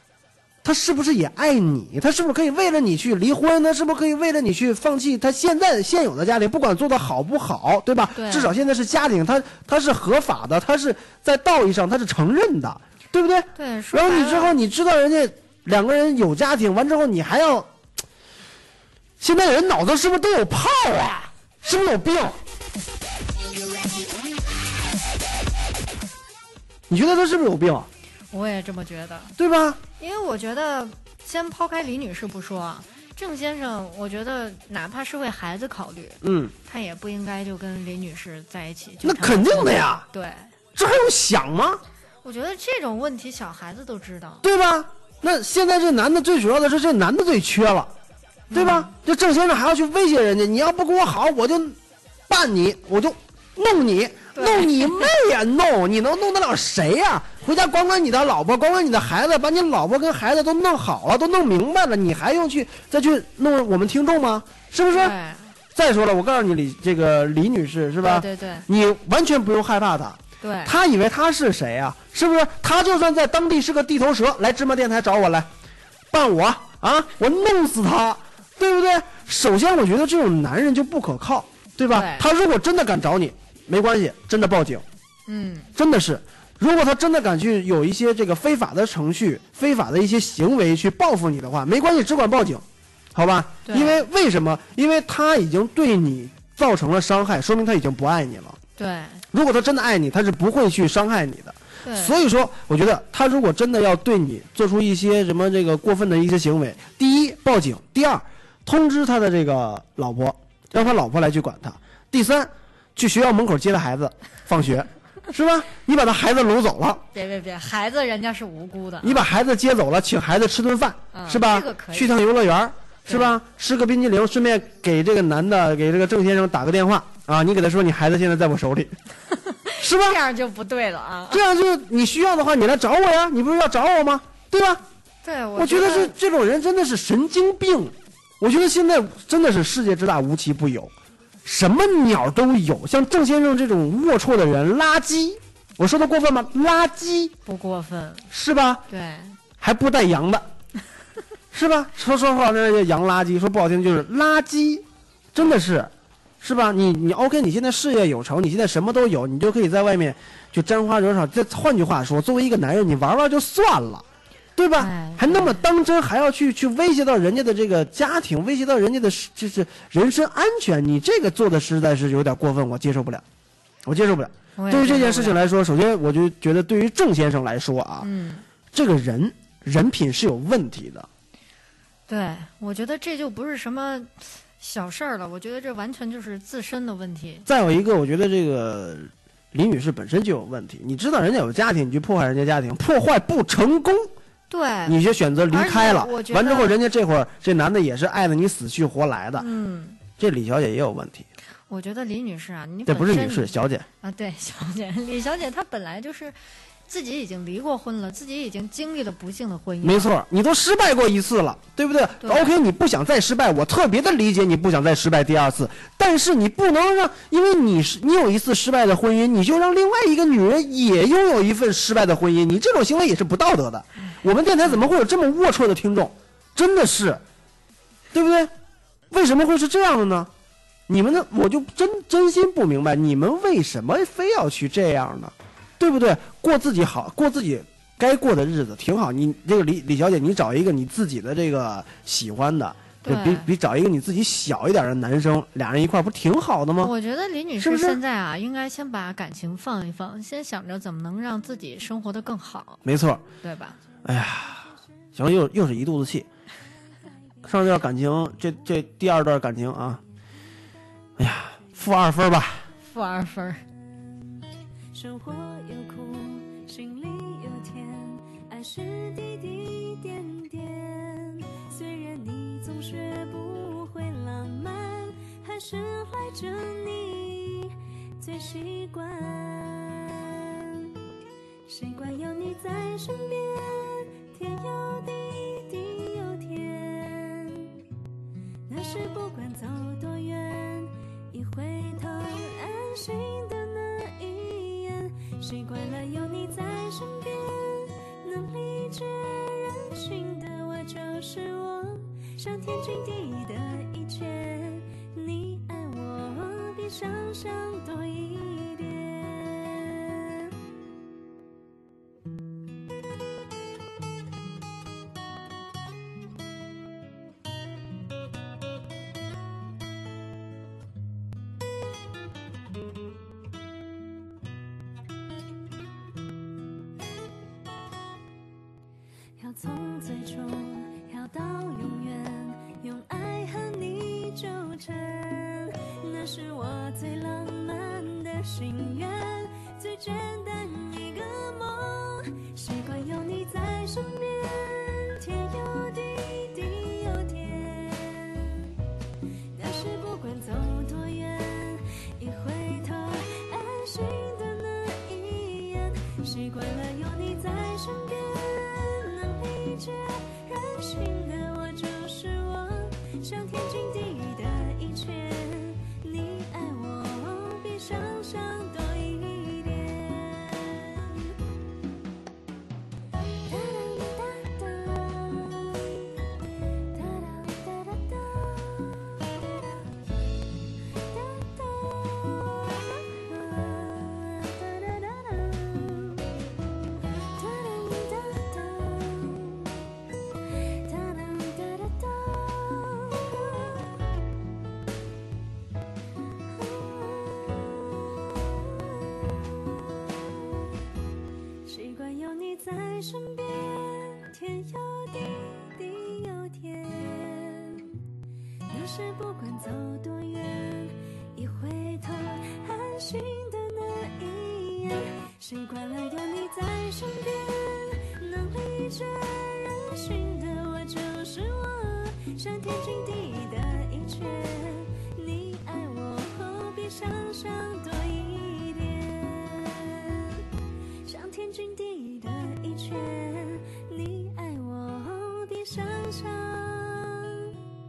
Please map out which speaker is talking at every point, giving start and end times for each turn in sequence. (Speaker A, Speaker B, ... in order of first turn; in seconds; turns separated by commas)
Speaker A: 0.6-17.7, Speaker B: 8.1-8.5, Speaker B: 13.6-14.6, Speaker A: 19.2-22.4, Speaker A: 26.9-27.9, Speaker B: 28.3-29.3, Speaker A: 29.4-29.8, Speaker B: 30.0-40.5, Speaker A: 36.2-36.5, Speaker A: 39.0-40.1, Speaker A: 40.8-41.8, Speaker B: 42.2-44.5, Speaker A: 44.4-47.9, Speaker B: 48.5-48.9, Speaker A: 48.5-51.8, Speaker A: 52.3-65.2, Speaker B: 54.4-55.1, Speaker B: 64.9-65.6, Speaker A: 65.8-75.5, Speaker B: 68.0-68.7, Speaker B: 70.4-70.8, Speaker A: 76.1-84.8, Speaker B: 81.9-82.3, Speaker B: 85.3-85.7, Speaker A: 85.8-98.6, Speaker B: 93.7-94.0, Speaker B: 98.8-99.2, Speaker A: 99.3-117.0, Speaker B: 101.8-102.2, Speaker B: 117.1-119.3, Speaker A: 119.0-129.0, Speaker B: 121.1-122.1, Speaker B: 123.1-123.4, Speaker B: 129.3-131.4, Speaker A: 129.8-130.2, Speaker A: 131.3-134.8, Speaker B: 135.2-136.1, Speaker A: 135.6-140.9, Speaker A: 141.4-147.3, Speaker B: 147.4-148.3, Speaker A: 148.3-148.9, Speaker B: 148.9-149.4, Speaker A: 149.6-150.5, Speaker A: 151.5-155.9, Speaker A: 156.4-164.1, Speaker A: 164.6-173.2, Speaker B: 164.8-165.6, Speaker A: 173.9-178.1, Speaker B: 174.6-175.4, Speaker B: 178.0-178.4, Speaker A: 178.7-181.1, Speaker B: 182.1-187.5, Speaker A: 187.5-194.1, Speaker B: 194.5-195.0, Speaker A: 194.8-199.5, Speaker B: 195.5-196.8, Speaker B: 199.4-200.0, Speaker A: 200.2-201.3, Speaker B: 201.7-206.4, Speaker A: 202.9-203.9, Speaker B: 206.9-210.1, Speaker A: 209.8-227.2, Speaker B: 212.2-212.5, Speaker A: 228.1-228.5, Speaker A: 229.1-230.3, Speaker A: 230.9-246.9, Speaker B: 243.0-243.5, Speaker B: 246.8-252.8, Speaker A: 247.6-248.0, Speaker A: 252.8-253.2, Speaker B: 253.4-253.8, Speaker A: 254.0-256.3, Speaker A: 257.4-260.0, Speaker A: 261.2-262.7, Speaker B: 262.8-263.6, Speaker C: 264.9-280.9, Speaker C: 281.7-287.8, Speaker C: 288.7-310.6, Speaker C: 329.4-348.8, Speaker C: 349.5-371.4, Speaker C: 373.5-376.3, Speaker C: 376.9-379.4, Speaker C: 381.1-386.4, Speaker C: 387.4-389.9, Speaker C: 390.8-394.1, Speaker C: 396.5-400.6, Speaker C: 401.6-408.0, Speaker C: 408.7-430.5, Speaker C: 431.1-437.6